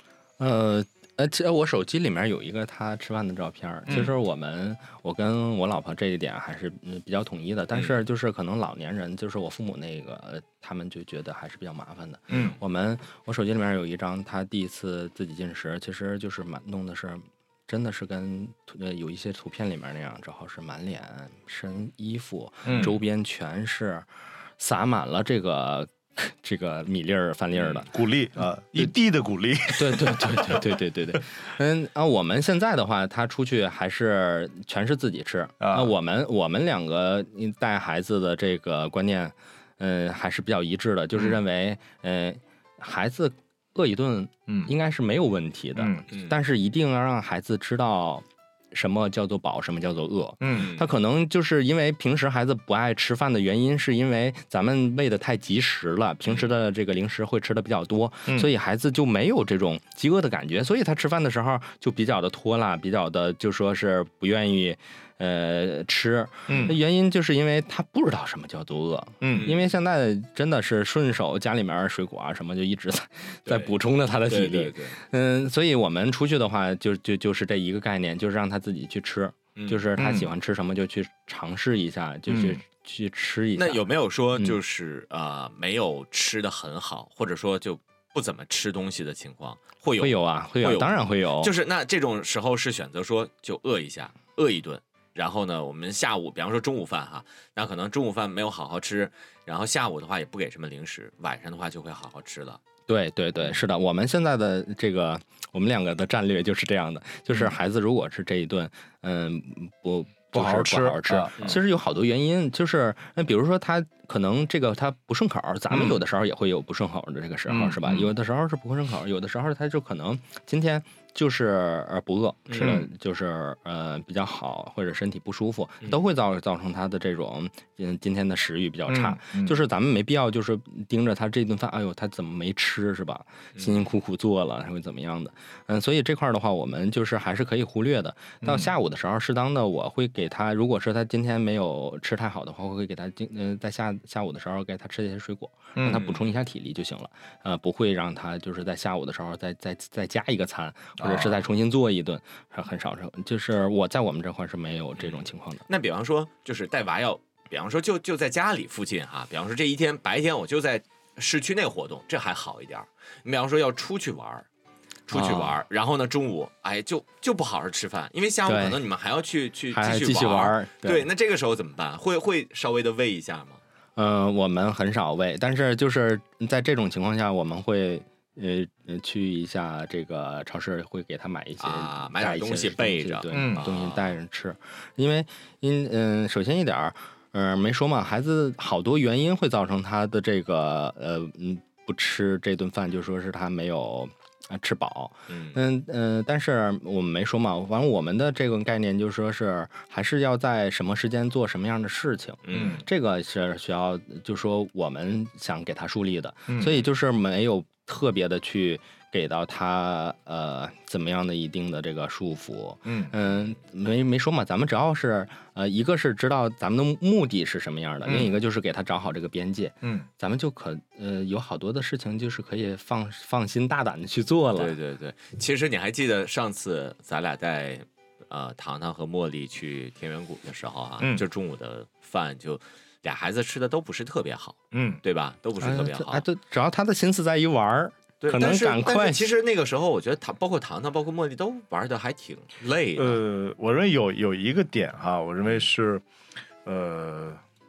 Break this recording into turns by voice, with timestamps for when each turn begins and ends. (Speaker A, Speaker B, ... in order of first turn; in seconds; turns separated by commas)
Speaker A: 0.4-24.1, Speaker B: 12.3-12.6, Speaker B: 22.6-23.0, Speaker A: 24.6-27.9, Speaker B: 27.6-30.6, Speaker A: 29.7-84.6, Speaker B: 35.6-35.9, Speaker B: 45.8-46.0, Speaker C: 46.1-46.4, Speaker B: 50.4-50.7, Speaker C: 50.5-50.9, Speaker B: 66.5-66.8, Speaker C: 66.5-66.7, Speaker B: 69.2-69.5, Speaker C: 69.3-69.6, Speaker C: 73.5-73.7, Speaker C: 74.3-75.0, Speaker C: 79.5-79.9, Speaker B: 80.0-80.3, Speaker B: 82.3-82.6, Speaker C: 83.5-102.6, Speaker A: 90.0-91.5, Speaker A: 102.9-155.6, Speaker B: 110.3-111.5, Speaker B: 117.5-118.1, Speaker C: 122.5-122.8, Speaker B: 122.6-122.8, Speaker B: 128.9-129.6, Speaker C: 133.6-133.9, Speaker B: 138.4-138.7, Speaker B: 145.7-146.0, Speaker C: 145.9-146.3, Speaker B: 151.0-151.4, Speaker C: 154.9-164.4, Speaker C: 165.1-173.6, Speaker A: 165.1-165.6, Speaker A: 168.4-168.8, Speaker A: 169.7-171.1, Speaker A: 173.9-224.8, Speaker C: 181.6-184.1, Speaker B: 183.3-183.7, Speaker C: 195.3-195.6, Speaker C: 202.4-202.8, Speaker B: 202.5-202.8, Speaker B: 206.5-206.8, Speaker B: 212.8-213.1, Speaker C: 224.6-236.2, Speaker B: 231.0-231.2, Speaker B: 234.7-235.0, Speaker A: 235.6-239.3, Speaker C: 238.2-243.2, Speaker B: 242.9-246.0, Speaker B: 246.6-247.4